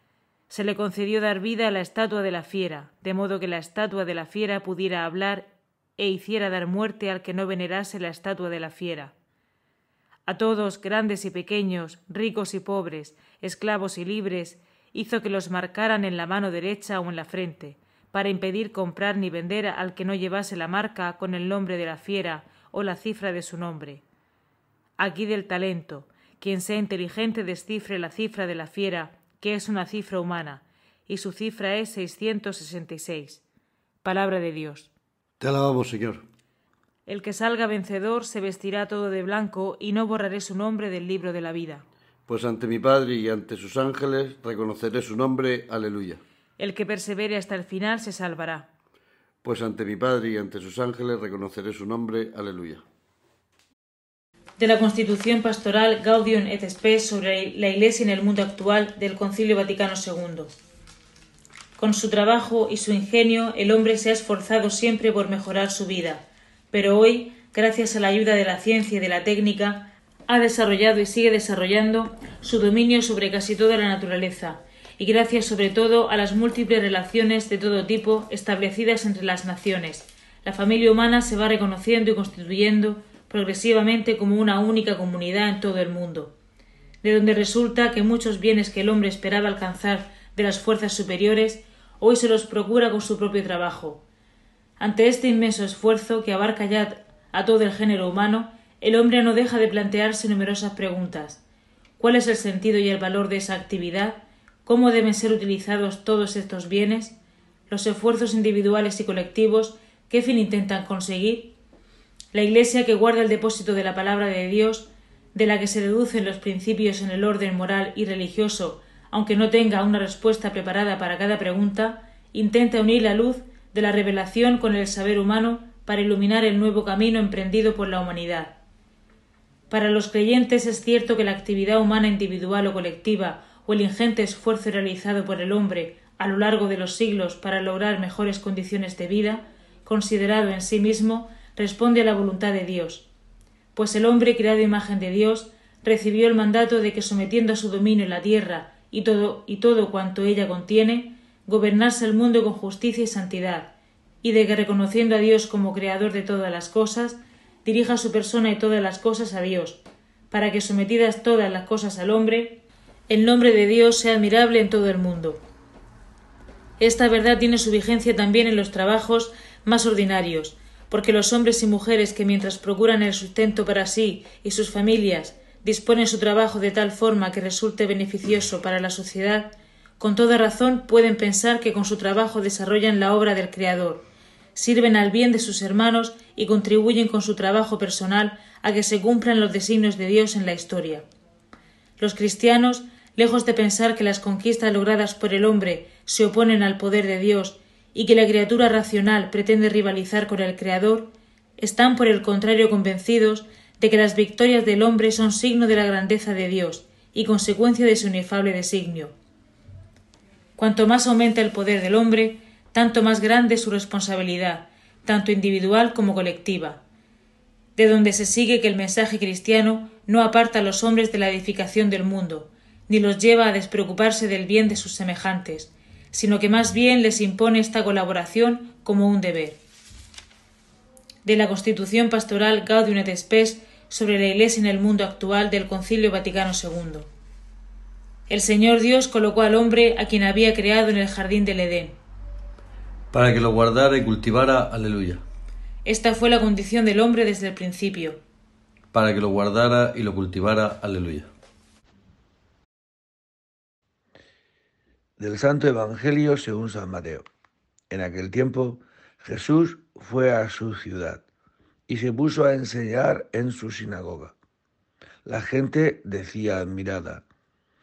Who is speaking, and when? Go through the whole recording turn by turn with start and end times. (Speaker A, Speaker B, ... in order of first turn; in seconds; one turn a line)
Speaker A: 0.5-9.1
Speaker A: 10.3-24.0
Speaker A: 25.0-33.4
Speaker A: 34.0-34.9
Speaker B: 35.4-36.2
Speaker A: 37.1-41.9
Speaker B: 42.3-46.2
Speaker A: 46.6-48.7
Speaker B: 49.4-52.8
Speaker A: 54.6-60.5
Speaker A: 61.8-86.3
Speaker A: 87.0-94.0
Speaker A: 94.8-101.4
Speaker A: 102.0-107.2
Speaker A: 107.7-111.5
Speaker A: 112.3-128.6
Speaker A: 129.7-143.1
Speaker A: 143.7-165.4
Speaker A: 166.8-184.0
Speaker A: 184.5-191.1
Speaker A: 192.0-209.1
Speaker A: 210.6-216.8
Speaker A: 217.8-229.6
Speaker A: 231.2-237.1
Speaker A: 238.3-242.0
Speaker B: 243.1-245.2
Speaker A: 245.8-248.2
Speaker B: 248.9-251.3
Speaker C: 255.2-257.2
Speaker C: 257.9-261.2
Speaker C: 261.9-264.3
Speaker C: 265.2-267.2